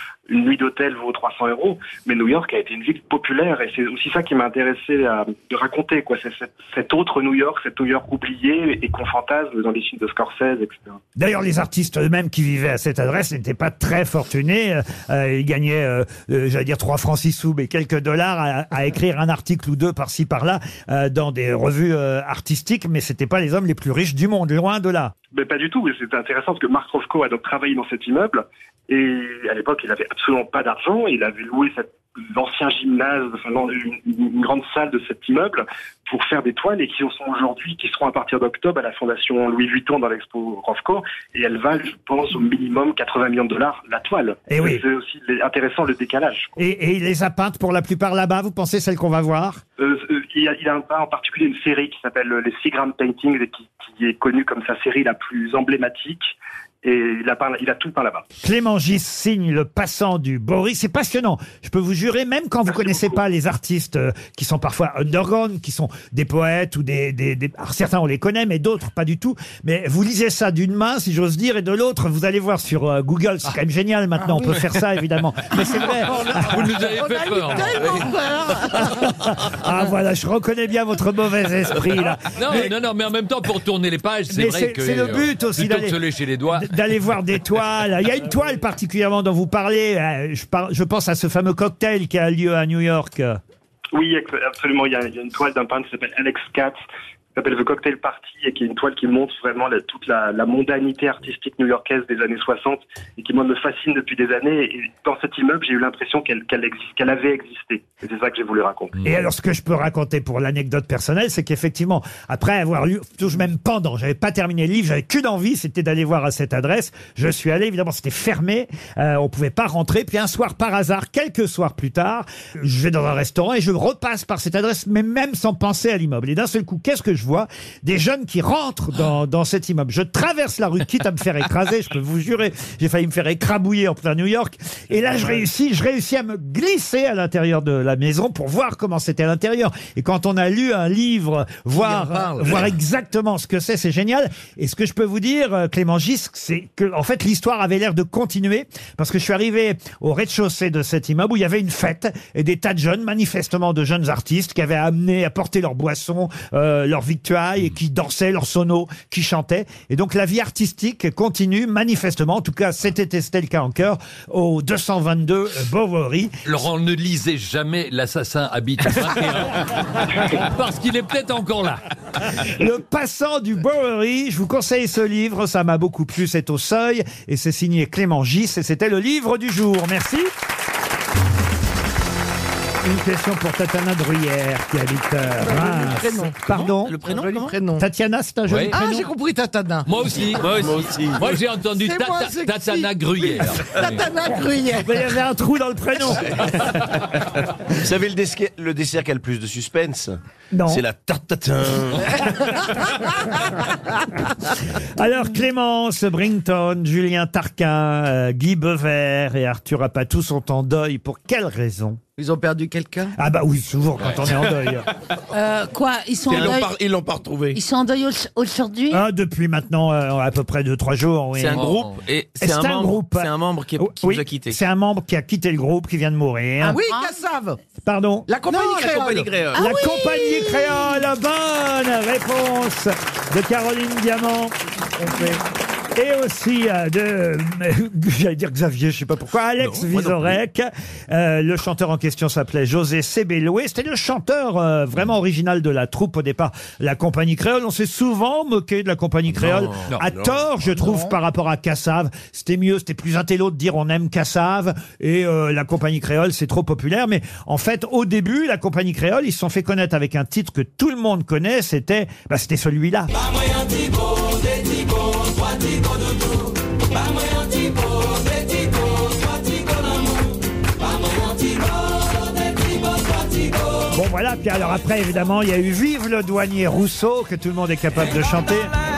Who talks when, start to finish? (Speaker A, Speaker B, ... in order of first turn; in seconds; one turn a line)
Speaker A: 0.3-11.0
Speaker B: 11.2-25.1
Speaker A: 25.3-46.5
Speaker B: 44.5-44.8
Speaker B: 46.6-49.6
Speaker A: 49.8-58.3
Speaker B: 58.4-76.7
Speaker A: 62.7-63.2
Speaker C: 76.4-78.1
Speaker D: 77.0-78.7
Speaker E: 77.5-78.7
Speaker B: 78.8-82.7
Speaker C: 82.3-86.8
Speaker B: 84.3-86.0
Speaker B: 86.5-93.4
Speaker A: 93.9-96.8
Speaker A: 97.4-109.0
Speaker B: 109.0-166.4
Speaker D: 141.8-142.7
Speaker C: 166.4-171.8
Speaker B: 172.4-180.3
Speaker B: 182.8-187.0
Speaker D: 185.4-186.4
Speaker F: 186.5-187.5
Speaker D: 187.0-187.8
Speaker B: 187.8-189.1
Speaker C: 188.5-188.7
Speaker D: 188.7-190.2
Speaker C: 189.9-194.1
Speaker G: 190.5-191.3
Speaker D: 191.7-195.1
Speaker B: 194.8-196.3
Speaker G: 197.7-202.3
Speaker B: 200.5-200.8
Speaker B: 204.9-212.0
Speaker D: 212.2-213.1
Speaker B: 213.2-214.9
Speaker E: 215.3-216.7
Speaker G: 216.3-217.6
Speaker E: 217.5-219.1
Speaker B: 218.9-221.8
Speaker F: 221.4-224.6
Speaker C: 221.5-222.0
Speaker B: 222.4-226.8
Speaker D: 226.6-227.6
Speaker E: 226.7-227.2
Speaker B: 227.8-228.3
Speaker D: 228.3-229.4
Speaker F: 228.5-229.6
Speaker E: 229.5-231.0
Speaker B: 229.5-234.6
Speaker B: 235.9-263.1
Speaker F: 239.6-240.3
Speaker G: 249.4-250.7
Speaker B: 273.9-278.7